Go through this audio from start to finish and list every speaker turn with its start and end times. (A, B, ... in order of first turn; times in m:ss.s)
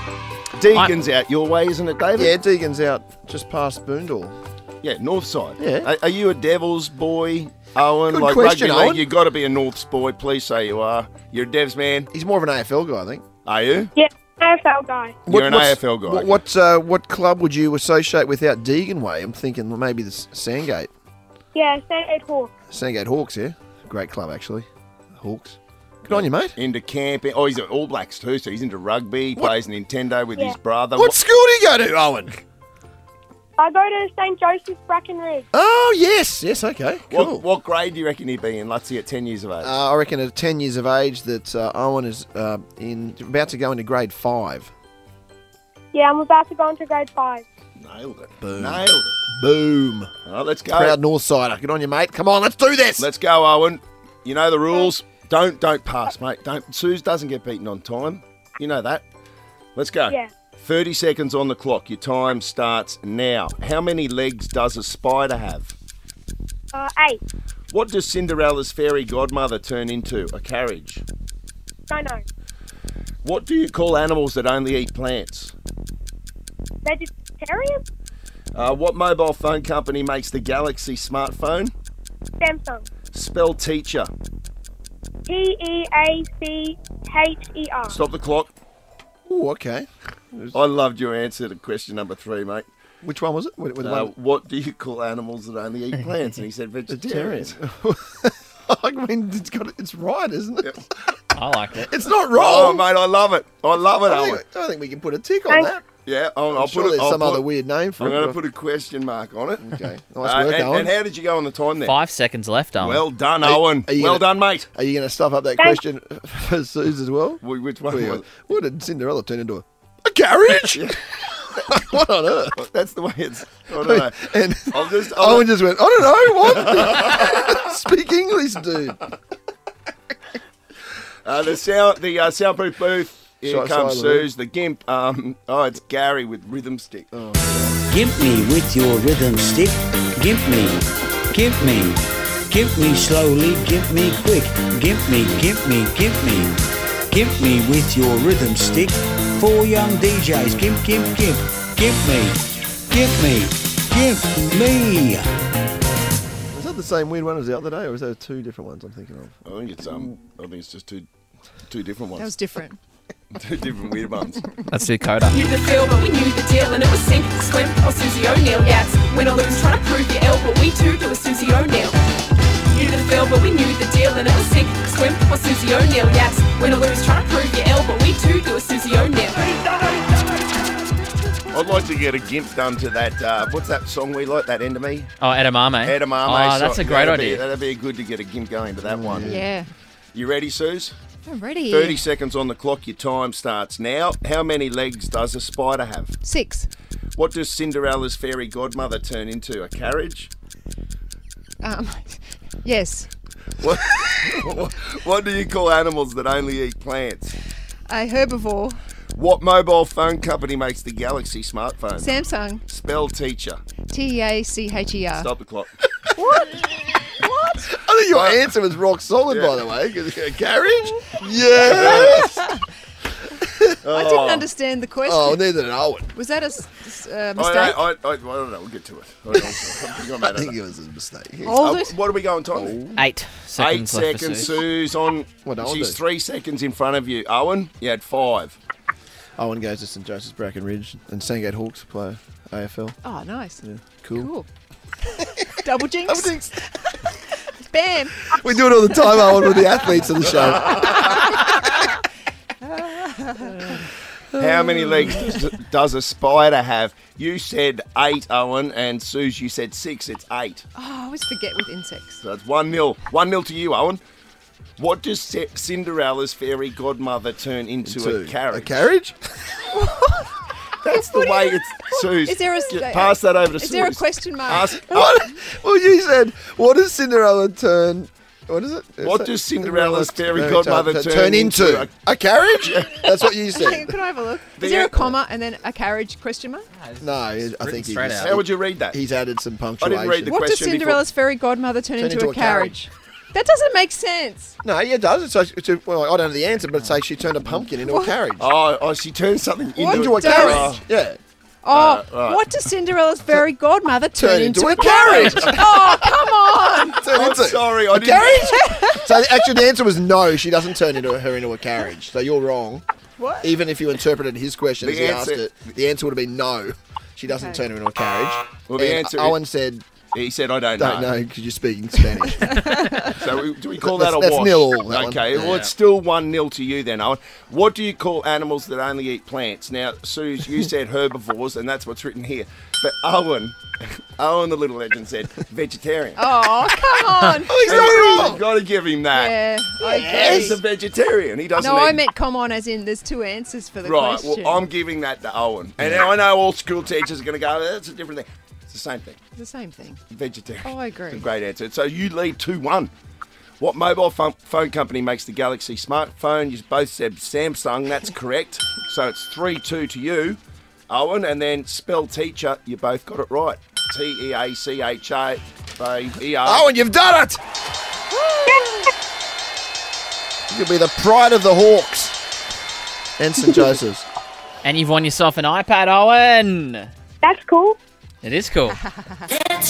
0:00.6-0:02.4 A
0:02.2-0:04.4 B
0:04.8-0:12.1 A
0:05.6-0:05.9 B
0:08.1-0:09.0 B
0:12.1-0:13.2 B
0:13.4-0:13.9 A
0:14.0-0:15.2 C
0:15.3-0:20.9 B
0:15.3-0:16.4 A
0:21.6-0:22.5 C
0:22.7-0:26.6 B
0:26.1-0:31.2 A
0:31.0-0:32.4 B
0:33.6-0:35.4 C
0:35.5-0:37.4 B
0:37.1-0:39.8 A
0:39.6-0:44.7 B
0:45.9-0:47.4 C
0:47.8-0:49.1 A
0:48.4-0:50.1 B
0:50.3-0:51.0 A
0:50.7-0:53.1 B
0:53.0-0:59.0 A
0:59.8-1:05.7 A
1:06.7-1:07.2 C
1:07.7-1:11.0 A
1:11.9-1:12.2 C
1:13.2-1:15.5 A
1:16.8-1:17.8 C
1:18.6-1:21.7 A
1:22.4-1:22.9 C
1:23.1-1:24.1 A
1:25.3-1:28.0 C
1:27.9-1:28.5 A
1:29.3-1:30.6 B
1:30.5-1:32.7 A
1:33.0-1:34.1 B
1:33.8-1:37.6 A
1:36.9-1:41.1 B
1:41.4-1:41.9 D
1:41.8-1:42.9 B
1:42.3-1:44.4 A
1:44.0-1:45.8 B
1:46.0-1:47.5 A
1:46.5-1:48.4 B
1:48.0-1:49.7 A
1:49.6-1:51.0 B
1:50.2-1:52.0 A
1:51.8-1:53.0 D
1:52.8-1:54.7 A
1:53.4-2:02.6 B
1:57.4-1:58.3 A
2:02.6-2:05.5 A
2:03.8-2:09.1 B
2:11.2-2:17.8 A
2:13.4-2:14.3 B
2:17.1-2:17.7 B
2:17.9-2:35.4 E
2:36.5-2:39.3 B
2:39.4-2:41.1 A
2:41.7-2:42.3 A
2:42.2-2:42.8 F
2:43.4-2:44.6 A
2:44.7-2:45.4 D
2:45.3-2:52.0 G
2:52.7-2:59.5 G
3:01.5-3:05.2 A
3:05.2-3:07.4 D
3:05.8-3:09.3 A
3:08.8-3:09.5 B
3:09.2-3:09.7 F
3:10.1-3:11.0 A
3:11.3-3:12.0 F
3:11.7-3:16.1 A
3:16.2-3:16.7 F
3:17.2-3:20.3 A
3:21.6-3:23.1 F
3:23.6-3:27.3 A
3:27.9-3:28.8 F
3:29.2-3:33.6 A
3:32.0-3:32.6 F
3:33.9-3:35.3 F
3:35.2-3:35.7 A
3:36.2-3:36.6 F
3:37.2-3:37.7 F
3:37.6-3:42.4 B
3:38.1-3:38.5 A
3:39.3-3:39.6 A
3:41.6-3:42.2 A
3:41.7-3:42.5 F
3:43.4-3:43.8 B
3:43.8-3:44.5 A
3:43.9-3:45.5 F
3:45.0-3:46.1 B
3:46.1-3:47.9 F
3:47.4-3:50.6 A
3:50.2-3:51.7 B
3:51.4-3:52.0 F
3:51.6-3:52.8 A
3:52.5-3:53.1 B
3:53.0-3:54.6 D
3:53.6-3:58.6 A
3:55.4-3:56.0 B
3:59.4-4:03.0 B
4:03.0-4:03.6 F
4:03.6-4:04.3 B
4:04.2-4:04.5 F
4:05.1-4:10.1 F
4:06.0-4:06.5 B
4:08.3-4:11.4 B
4:10.9-4:11.4 F
4:12.6-4:13.7 F
4:14.3-4:15.4 B
4:14.4-4:20.6 A
4:20.8-4:22.2 F
4:22.2-4:24.0 A
4:24.8-4:28.7 A
4:27.8-4:29.2 B
4:29.7-4:30.3 F
4:30.8-4:35.2 A
4:31.3-4:35.2 F
4:34.9-4:44.0 B
4:39.0-4:41.9 A
4:42.6-4:43.2 A
4:43.5-4:46.7 F
4:44.6-4:45.1 A
4:46.7-4:48.4 D
4:47.0-4:50.4 B
4:48.2-4:49.0 A
4:49.8-4:51.0 A
4:50.3-4:54.5 F
4:52.0-4:52.8 B
4:54.6-4:58.5 B
4:57.8-4:58.2 F
4:58.4-5:00.8 A
4:59.8-5:00.8 F
4:59.9-5:01.2 B
5:01.6-5:07.1 F
5:01.7-5:02.6 A
5:04.2-5:06.0 B
5:04.8-5:05.6 A
5:06.9-5:12.8 B
5:07.0-5:08.5 A
5:08.4-5:09.4 F
5:13.2-5:13.5 F
5:13.4-5:19.8 B
5:14.8-5:15.5 A
5:17.3-5:17.6 F
5:18.7-5:19.4 A
5:20.1-5:21.2 A
5:20.8-5:23.1 B
5:22.5-5:22.9 F
5:23.1-5:33.6 A
5:23.8-5:25.7 B
5:34.2-5:36.2 A
5:36.2-5:38.4 F
5:37.4-5:38.5 B
5:37.6-5:42.0 A
5:39.1-5:40.6 F
5:41.6-5:44.7 F
5:43.8-5:49.2 A
5:49.4-5:50.0 F
5:50.1-5:52.9 A
5:50.6-5:51.3 F
5:53.6-6:06.7 A
6:06.4-6:07.4 B
6:10.5-6:12.2 B
6:13.2-6:14.1 B
6:14.6-6:16.9 D
6:17.2-6:17.8 C
6:18.2-6:18.8 D
6:18.9-6:19.2 F